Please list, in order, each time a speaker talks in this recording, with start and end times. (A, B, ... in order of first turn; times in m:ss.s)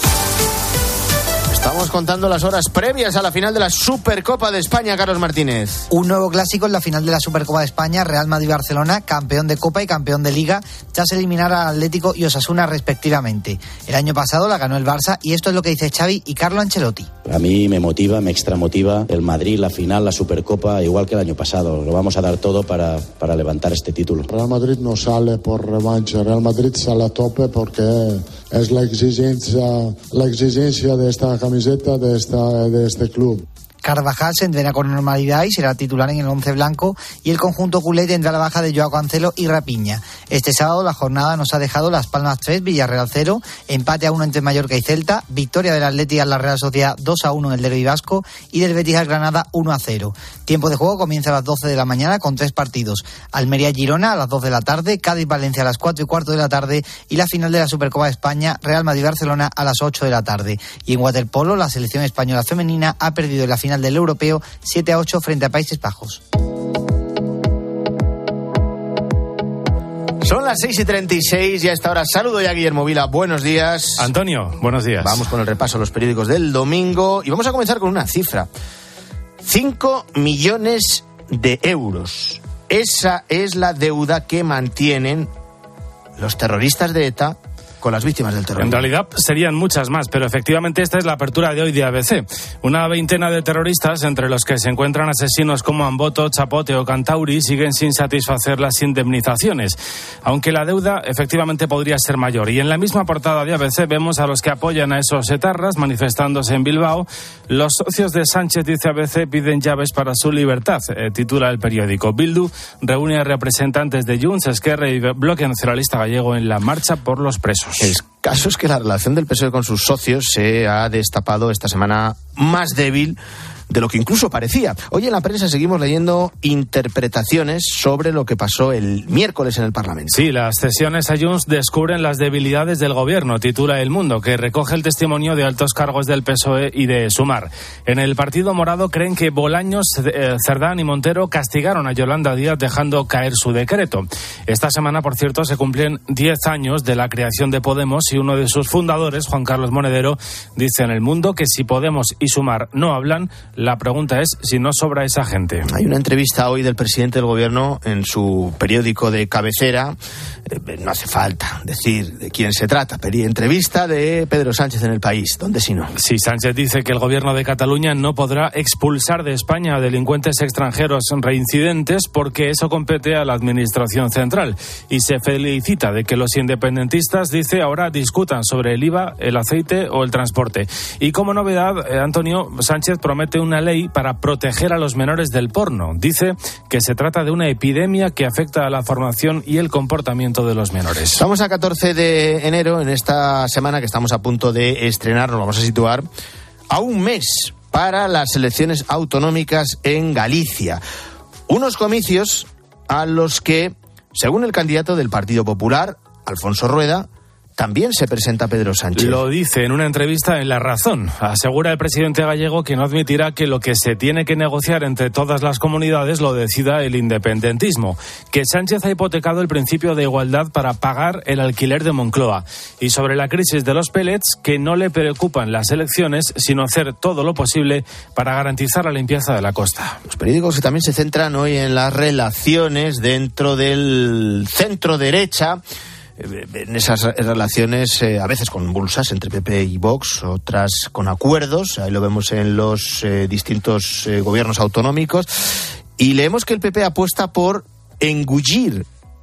0:01.5-0:05.8 A
0:05.9-0:17.1 B
0:17.3-0:24.3 C
0:24.3-0:33.4 D
0:33.8-1:06.2 B
1:10.2-1:14.1 A
1:14.0-1:15.2 E
1:15.0-1:18.5 A
1:19.4-1:25.3 A
1:26.2-1:28.9 A
1:28.6-1:58.0 E
1:57.8-2:03.2 A
2:03.7-2:10.2 A
2:10.1-2:35.7 E
2:35.7-2:40.0 A
2:40.5-2:45.9 A
2:46.0-3:11.2 E
3:11.2-3:16.0 A
3:16.7-3:20.8 A
3:21.5-3:29.2 A
3:29.0-3:50.0 E
3:50.1-3:55.6 A
3:56.2-4:05.3 A
4:06.0-4:08.9 A